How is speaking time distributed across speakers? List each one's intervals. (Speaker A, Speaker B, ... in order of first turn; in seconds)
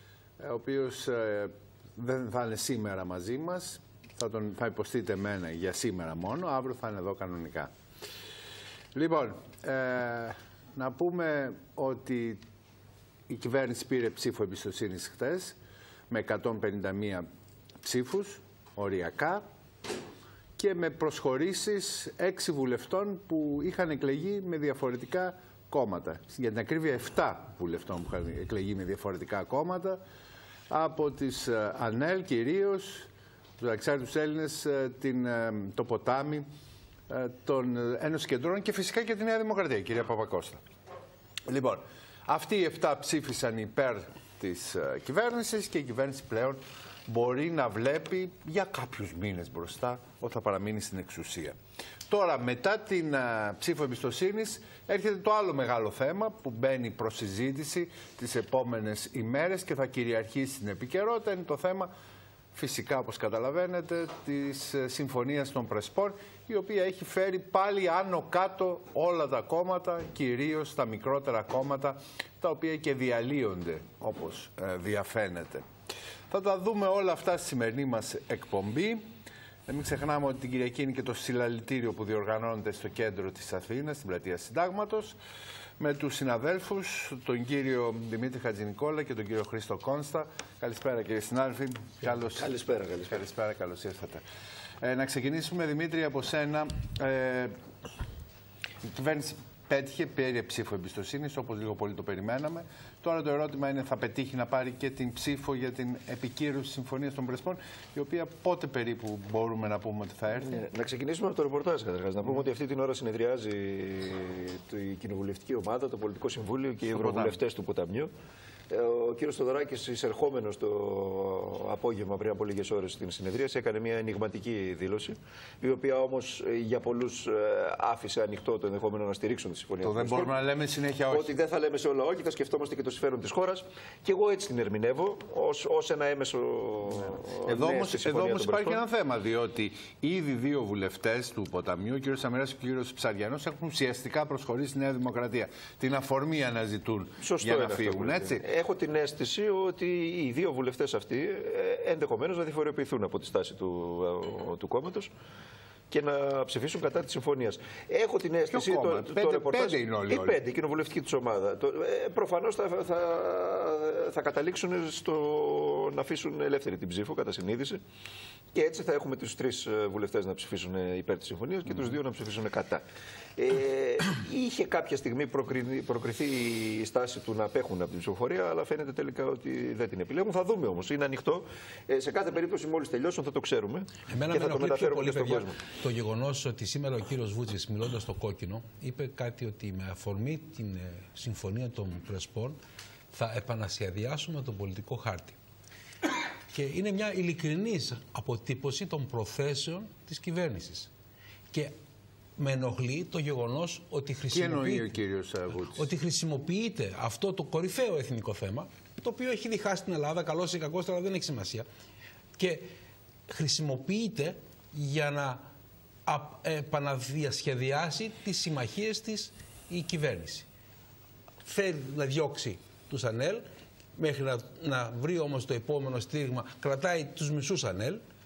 Speaker A: 0.4-7.7, 8.9-12.4, 13.3-15.6, 16.1-17.3, 17.8-19.4, 20.6-30.0, 30.7-36.5, 37.1-40.6, 41.5-51.6, 52.1-61.9, 62.5-75.7, 76.3-79.1, 79.7-85.2, 85.8-94.2, 94.8-97.6, 98.8-110.7, 116.9-117.4, 129.8-131.3, 137.4-148.4, 158.5-160.4, 204.3-205.9
Speaker B: 92.3-93.2, 110.5-118.1, 118.7-130.3, 131.1-138.8, 147.2-155.1, 155.9-167.8, 168.5-172.8, 173.4-185.6
Speaker C: 184.1-192.6, 193.1-195.4, 196.5-200.9, 202.4-204.9, 205.8-211.7, 212.4-212.7, 213.3-215.4, 216.1-220.5, 221.4-223.4, 224.0-228.0